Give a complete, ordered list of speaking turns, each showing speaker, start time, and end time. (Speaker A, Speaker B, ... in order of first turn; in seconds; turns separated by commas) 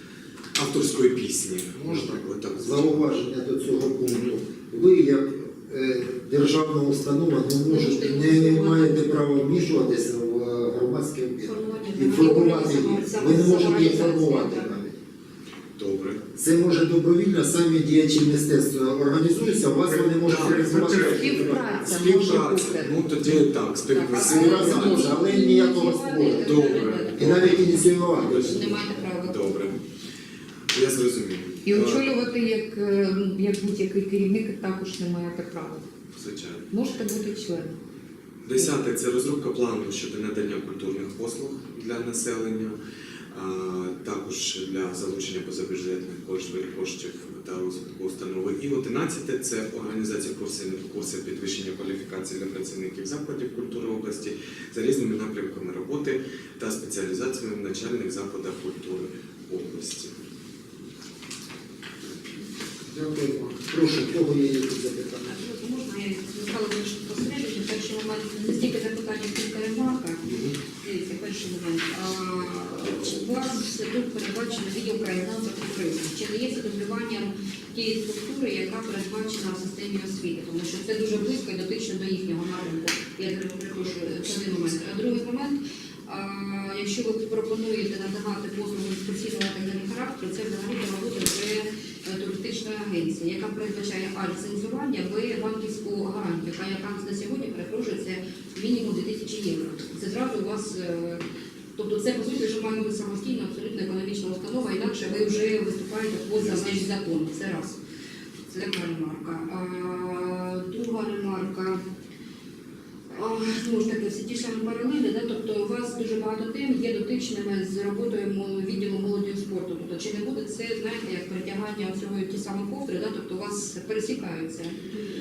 Speaker A: 0.6-3.1, Speaker B: 1.8-14.9, Speaker A: 4.0-4.4, Speaker C: 7.7-9.6, Speaker C: 11.4-14.8, Speaker A: 15.8-16.2, Speaker B: 16.4-21.8, Speaker A: 20.2-25.1, Speaker D: 20.6-23.4, Speaker C: 23.9-29.6, Speaker B: 24.1-28.8, Speaker D: 24.5-25.2, Speaker A: 26.4-28.6, Speaker A: 29.2-29.8, Speaker A: 30.7-32.2, Speaker D: 31.6-35.9, Speaker A: 36.1-36.7, Speaker D: 36.7-37.7, Speaker A: 38.4-42.8, Speaker A: 43.3-60.1, Speaker B: 62.9-65.3, Speaker C: 65.2-101.2, Speaker A: 70.3-70.5, Speaker C: 101.8-107.8, Speaker C: 108.5-111.8, Speaker C: 113.1-124.8